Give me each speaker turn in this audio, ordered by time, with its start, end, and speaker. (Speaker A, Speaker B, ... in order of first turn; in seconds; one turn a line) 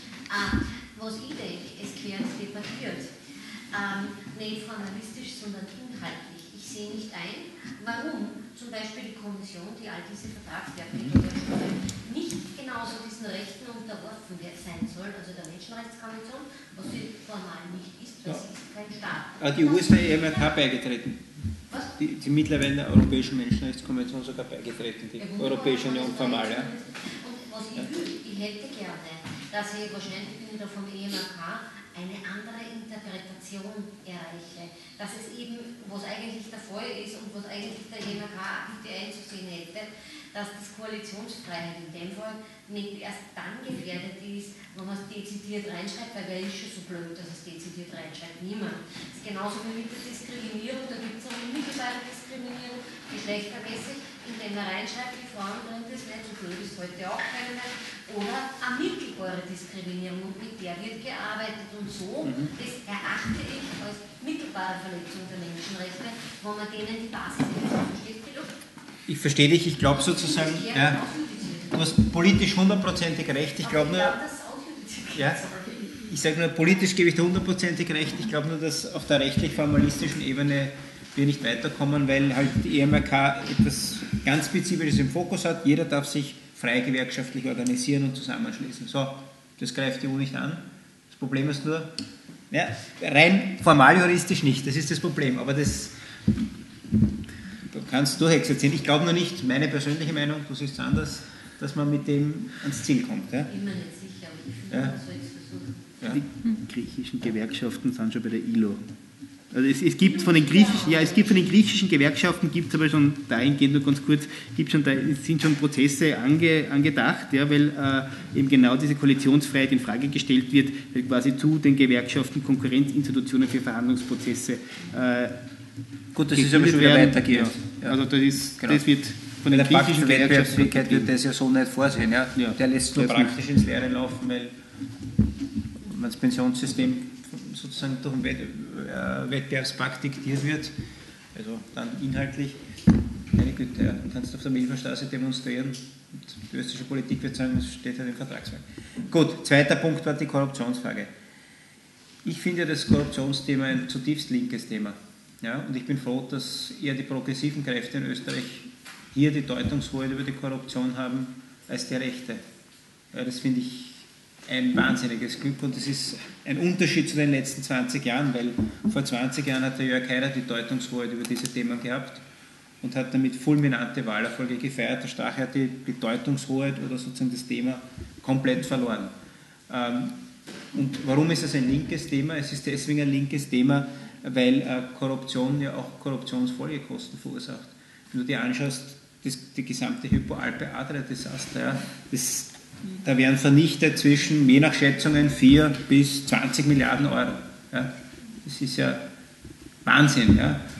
Speaker A: 0.3-3.1
Speaker A: 3.7-20.6
Speaker B: 10.9-11.2
Speaker B: 19.4-21.2
Speaker B: 22.0-26.7
Speaker A: 25.2-68.6
Speaker B: 69.1-71.0
Speaker A: 69.9-72.0
Speaker B: 71.7-74.2
Speaker A: 73.6-76.0
Speaker B: 75.1-91.9
Speaker B: 92.5-95.9
Speaker B: 97.7-103.5
Speaker A: 103.5-106.0
Speaker B: 104.7-105.0
Speaker C: 106.1-108.9
Speaker C: 109.5-125.4
Speaker A: 110.0-111.5
Speaker B: 126.2-128.0
Speaker C: 126.4-131.1
Speaker B: 128.6-128.8
Speaker B: 129.5-134.5
Speaker C: 132.4-133.3
Speaker B: 135.9-140.7
Speaker B: 141.3-142.6
Speaker B: 143.3-151.1
Speaker B: 152.2-162.4
Speaker B: 163.1-172.2
Speaker B: 172.8-179.1
Speaker B: 179.7-180.2
Speaker B: 180.7-197.9
Speaker B: 198.4-199.0
Speaker B: 199.8-200.6